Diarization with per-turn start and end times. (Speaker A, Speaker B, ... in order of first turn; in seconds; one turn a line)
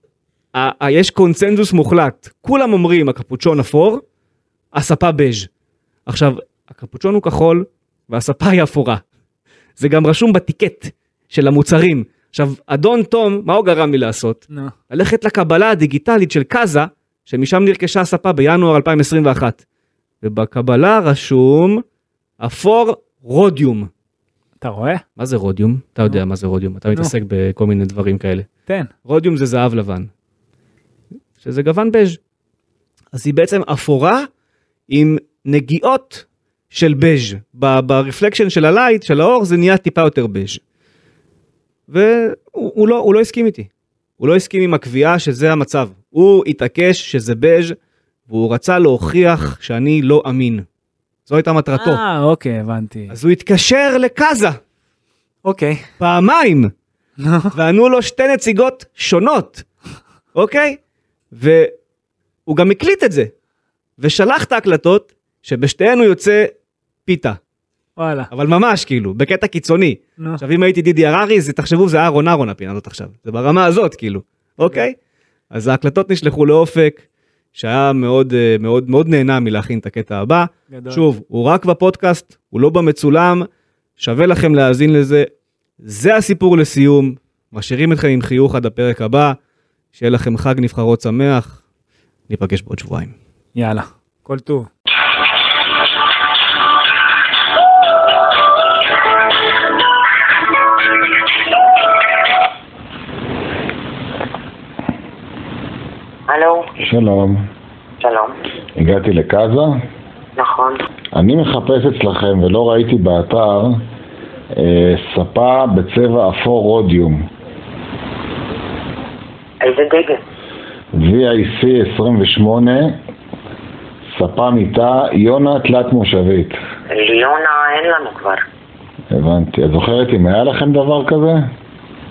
Speaker A: 0.5-4.0
Speaker A: 4.7-5.5
Speaker A: 6.1-9.0
Speaker A: 9.8-19.6
Speaker A: 20.2-21.8
Speaker A: 22.4-23.9
Speaker B: 24.6-25.0
Speaker A: 25.2-28.5
Speaker B: 28.7-28.9
Speaker A: 29.1-30.1
Speaker A: 31.4-32.2
Speaker A: 33.1-34.3
Speaker A: 34.9-40.6
Speaker A: 41.9-47.8
Speaker A: 48.3-50.6
Speaker A: 51.3-52.0
Speaker B: 51.8-53.1
Speaker A: 53.1-54.6
Speaker B: 55.5-55.9
Speaker A: 56.0-56.7
Speaker B: 57.2-57.5
Speaker A: 57.5-59.7
Speaker A: 60.3-60.8
Speaker A: 61.3-61.8
Speaker A: 62.5-63.3
Speaker A: 64.0-66.5
Speaker A: 67.1-67.4
Speaker B: 68.0-68.3
Speaker A: 68.3-75.0
Speaker A: 75.5-83.5
Speaker B: 80.7-81.0
Speaker A: 84.0-85.3
Speaker A: 85.8-89.4
Speaker A: 89.9-91.6
Speaker A: 92.3-93.2
Speaker B: 93.6-94.7
Speaker C: 106.3-106.7
Speaker D: 106.8-107.5
Speaker C: 108.0-108.3
Speaker D: 108.8-109.8
Speaker C: 110.4-110.8
Speaker D: 111.2-113.8
Speaker D: 114.5-117.3
Speaker C: 119.6-120.2
Speaker D: 120.9-123.0
Speaker D: 124.1-126.6
Speaker C: 126.9-128.4
Speaker D: 129.1-131.5